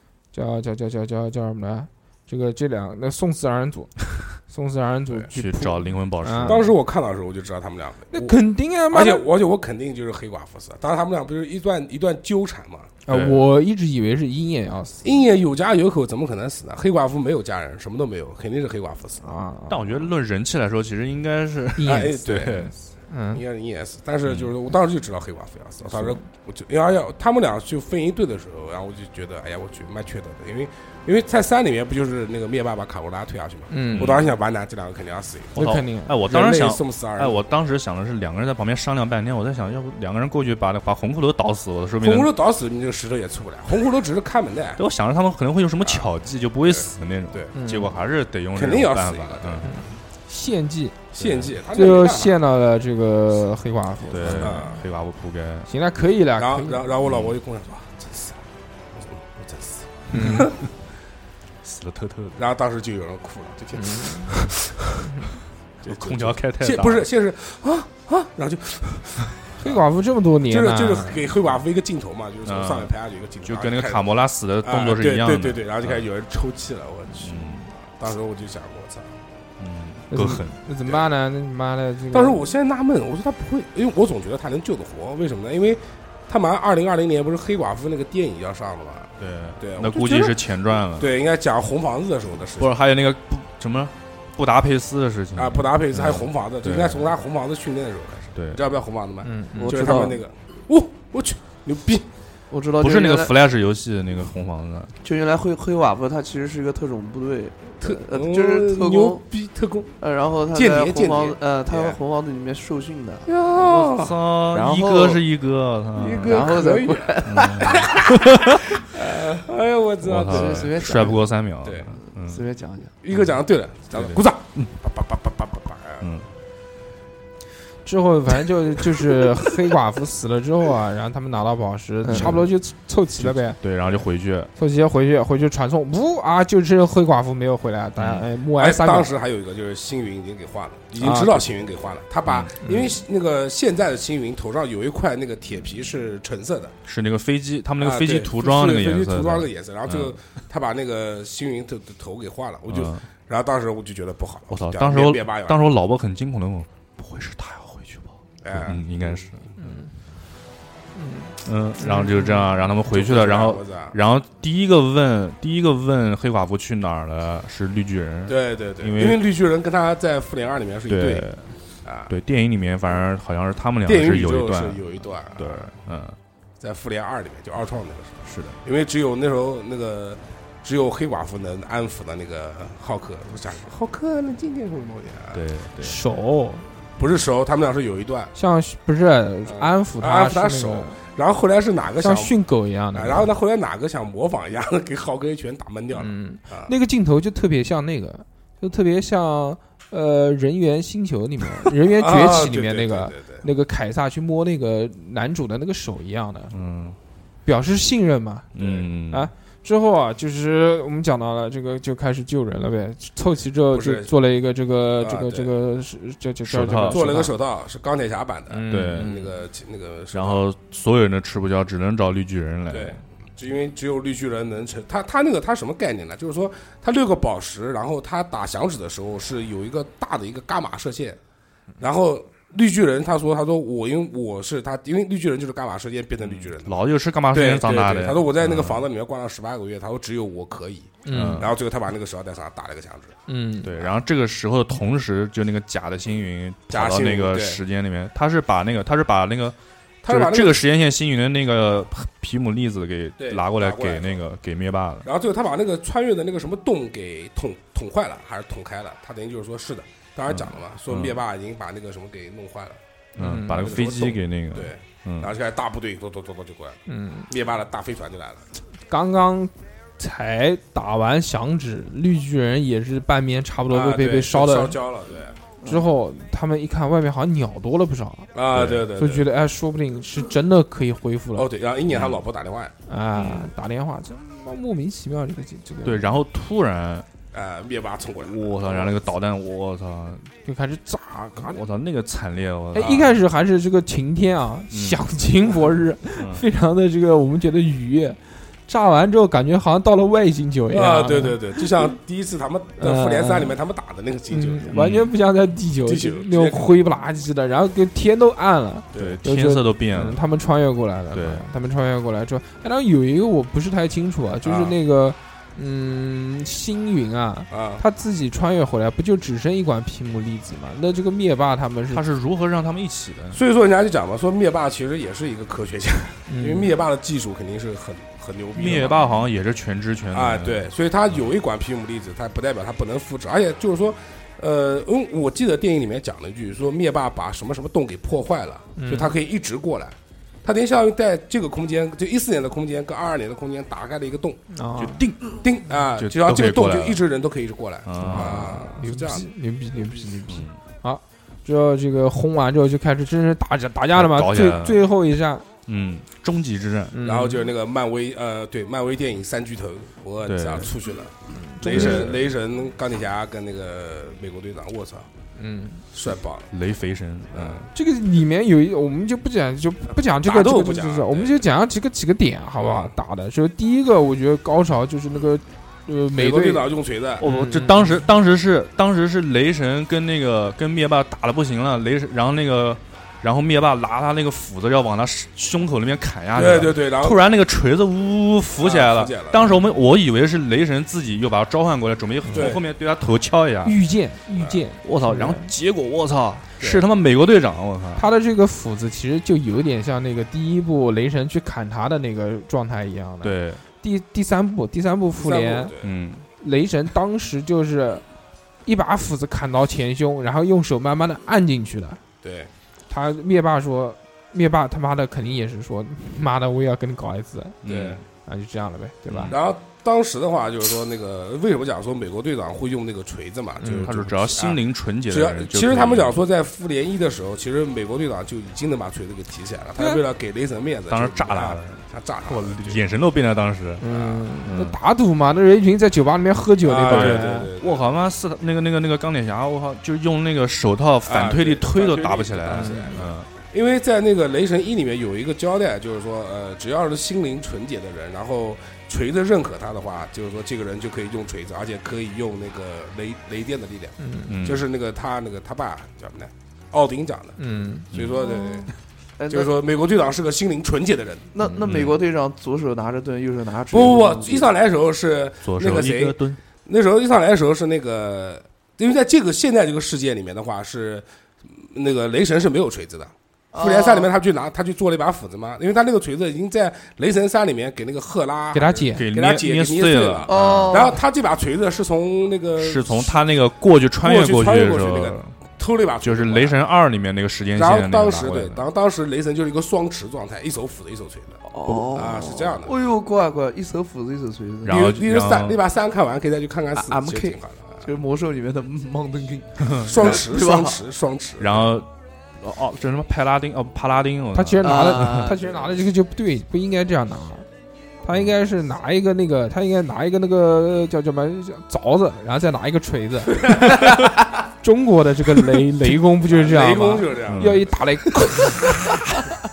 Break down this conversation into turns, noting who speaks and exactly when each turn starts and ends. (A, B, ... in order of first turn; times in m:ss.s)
0:00.3-0:06.7 A
0:05.3-0:06.7 B
0:06.4-0:08.4 C
0:08.1-0:09.2 A
0:08.9-0:12.9 C
0:13.1-0:15.2 A
0:13.1-0:13.4 B
0:15.0-0:19.3 C
0:19.2-0:20.1 A
0:19.7-0:22.7 B
0:21.8-0:23.4 A
0:21.8-0:22.7 C
0:23.3-0:35.7 C
0:24.3-0:24.5 B
0:33.7-0:34.2 A
0:33.9-0:34.3 B
0:35.6-0:42.3 B
0:35.6-0:36.2 A
0:36.2-0:37.4 C
0:42.0-0:44.8 C
0:44.8-0:49.7 B
0:45.8-0:46.1 C
0:46.6-0:47.6 C
0:47.6-0:47.9 A
0:48.5-0:49.8 C
0:49.6-0:51.0 A
0:51.1-0:52.4 C
0:51.2-0:51.5 B
0:51.7-0:54.7 A
0:54.1-0:55.7 B
0:54.2-0:54.8 C
0:55.7-0:56.8 A
0:56.4-0:58.4 C
0:57.0-0:57.4 B
0:59.0-1:00.7 C
1:00.1-1:00.5 A
1:01.6-1:02.4 B
1:02.4-1:05.1 C
1:03.8-1:04.3 A
1:05.8-1:09.8 C
1:05.8-1:07.1 B
1:09.6-1:11.3 A
1:10.5-1:14.1 C
1:12.4-1:16.1 B
1:14.6-1:19.2 C
1:17.2-1:17.7 B
1:19.6-1:20.6 B
1:20.1-1:22.4 A
1:22.1-1:30.4 C
1:29.2-1:31.1 B
1:31.0-1:32.7 C
1:32.6-1:37.1 B
1:35.4-1:42.1 C
1:38.4-1:38.6 B
1:39.2-1:40.0 A
1:39.5-1:40.2 D
1:42.5-1:43.3 D
1:42.8-1:44.9 B
1:45.0-1:49.2 D
1:47.8-1:50.0 C
1:50.0-1:53.3 D
1:50.5-1:52.0 C
1:53.3-1:54.2 C
1:53.5-1:56.6 B
1:54.5-1:55.2 D
1:55.9-1:59.0 D
1:56.0-2:01.9 C
1:57.2-1:58.6 B
2:00.0-2:02.4 B
2:00.2-2:01.2 D
2:02.2-2:02.9 D
2:03.0-2:06.1 C
2:03.9-2:04.7 B
2:06.0-2:06.3 B
2:07.8-2:13.6 A
2:12.0-2:12.4 D
2:12.1-2:12.5 B
2:13.2-2:14.5 B
2:14.6-2:19.1 A
2:18.0-2:18.2 B
2:18.6-2:26.8 C
2:21.0-2:21.5 A
2:22.3-2:22.5 B
2:22.6-2:23.0 A
2:26.9-2:30.2 B
2:27.8-2:35.6 C
2:32.7-2:33.0 B
2:34.5-2:39.4 B
2:38.4-2:39.5 C
2:39.6-2:39.9 A
2:41.0-2:42.5 A
2:41.4-2:49.2 B
2:42.9-2:44.0 C
2:48.3-2:51.3 C
2:50.9-2:51.5 B
2:51.8-2:52.1 C
2:52.1-2:54.8 B
2:53.9-2:55.7 C
2:55.4-2:56.2 B
2:56.6-3:05.4 C
2:58.2-2:58.6 B
3:05.3-3:06.0 B
3:05.8-3:06.7 A
3:07.0-3:08.3 C
3:08.4-3:11.0 A
3:09.5-3:12.4 C
3:12.0-3:13.3 A
3:12.9-3:16.7 C
3:16.0-3:26.5 A
3:21.9-3:23.4 C
3:26.5-3:27.0 B
3:27.4-3:28.5 A
3:28.5-3:29.3 B
3:28.6-3:28.9 C
3:29.1-3:37.3 A
3:33.7-3:34.1 C
3:35.0-3:35.5 C
3:36.5-3:37.0 B
3:36.9-3:40.4 C
3:38.5-3:39.3 A
3:38.7-3:39.1 B
3:40.1-3:43.0 B
3:42.7-3:51.2 C
3:51.8-4:03.2 C
3:56.2-3:58.8 B
4:01.1-4:01.5 A
4:01.1-4:01.5 B
4:03.3-4:03.7 A
4:03.6-4:15.1 B
4:06.7-4:07.6 C
4:10.0-4:10.6 C
4:13.2-4:14.2 C
4:15.0-4:22.8 C
4:20.3-4:21.2 B
4:23.2-4:23.7 A
4:23.2-4:25.3 B
4:23.5-4:28.4 C
4:26.9-4:27.3 A
4:28.9-4:34.8 A
4:33.7-4:35.4 C
4:35.6-4:41.5 A
4:38.4-4:39.3 C
4:38.5-4:38.9 B
4:41.4-4:42.7 C
4:41.9-4:42.2 B
4:42.9-4:46.2 A
4:43.2-4:43.5 B
4:45.8-4:47.1 B
4:47.3-4:49.0 C
4:48.2-4:50.3 B
4:50.4-4:51.6 A
4:51.4-4:53.1 B
4:52.7-5:01.7 A
4:52.8-4:53.1 C
4:54.7-4:55.0 B
4:56.2-4:56.4 B
5:00.7-5:04.8 C
5:02.8-5:03.6 A
5:04.3-5:22.0 A
5:04.7-5:05.1 B
5:05.9-5:06.7 C
5:08.9-5:09.2 C
5:09.0-5:10.2 B
5:11.1-5:11.4 B
5:14.4-5:14.8 C
5:17.5-5:17.8 C
5:21.9-5:23.4 B
5:23.3-5:29.0 C
5:26.3-5:26.8 A
5:28.6-5:31.2 B
5:30.1-5:44.4 C
5:38.8-5:39.2 A
5:44.5-5:45.1 A
5:44.8-5:45.4 B
5:45.3-5:49.3 C
5:46.0-5:47.0 B
5:47.9-5:48.7 B
5:48.0-5:55.5 A
5:50.3-5:50.6 B
5:53.9-5:54.8 B
5:55.7-5:57.0 B
5:56.9-5:57.5 A
5:57.0-6:05.1 C
6:00.2-6:00.7 B
6:01.3-6:02.2 A
6:01.7-6:02.2 B
6:05.4-6:05.8 A
6:05.9-6:06.5 C
6:06.5-6:07.7 B
6:07.3-6:07.7 C
6:07.7-6:16.7 A
6:10.2-6:11.4 C
6:12.6-6:12.9 C
6:16.2-6:17.2 C
6:17.2-6:33.8 B
6:17.2-6:18.0 A
6:26.4-6:27.2 C
6:28.6-6:29.5 C
6:32.3-6:32.6 C
6:33.6-6:35.5 A
6:34.8-6:38.0 B
6:38.0-6:45.7 A
6:43.2-6:43.6 B
6:45.2-6:45.9 C
6:45.8-6:46.2 B
6:46.4-6:48.0 A
6:48.6-6:52.0 A
6:52.2-6:52.5 C
6:52.9-6:57.6 A
6:57.6-6:58.0 B
6:57.6-6:58.0 C
6:58.2-6:59.4 A
6:59.1-6:59.4 B
6:59.3-7:12.8 C
7:03.6-7:03.9 A
7:03.8-7:06.2 B
7:10.9-7:13.8 B
7:13.8-7:17.5 A
7:13.8-7:14.2 C
7:14.4-7:14.8 B
7:16.6-7:18.0 C
7:16.9-7:23.3 B
7:21.0-7:37.4 C
7:22.5-7:23.0 A
7:34.0-7:34.4 A
7:34.3-7:34.7 B
7:37.4-7:37.9 A
7:37.9-7:38.7 C
7:37.9-7:38.3 B
7:38.2-7:38.7 D
7:39.2-7:39.5 D
7:39.3-7:41.3 C
7:41.3-7:44.5 D
7:41.4-7:42.0 B
7:43.7-8:03.2 C
7:45.4-7:46.4 B
7:53.5-7:54.1 D
7:58.5-7:59.1 A
7:58.9-8:00.9 B
8:00.3-8:01.0 D
8:02.6-8:05.3 B
8:04.0-8:06.6 C
8:06.0-8:08.6 B
8:07.6-8:12.8 C
8:11.5-8:14.8 D
8:14.6-8:15.6 B
8:14.7-8:17.9 C
8:16.8-8:20.8 D
8:19.6-8:20.0 B
8:19.8-8:21.7 C
8:21.4-8:25.3 B
8:24.4-8:27.5 A
8:24.6-8:25.7 D
8:28.0-8:39.3 A
8:36.2-8:37.7 C
8:37.3-8:37.6 B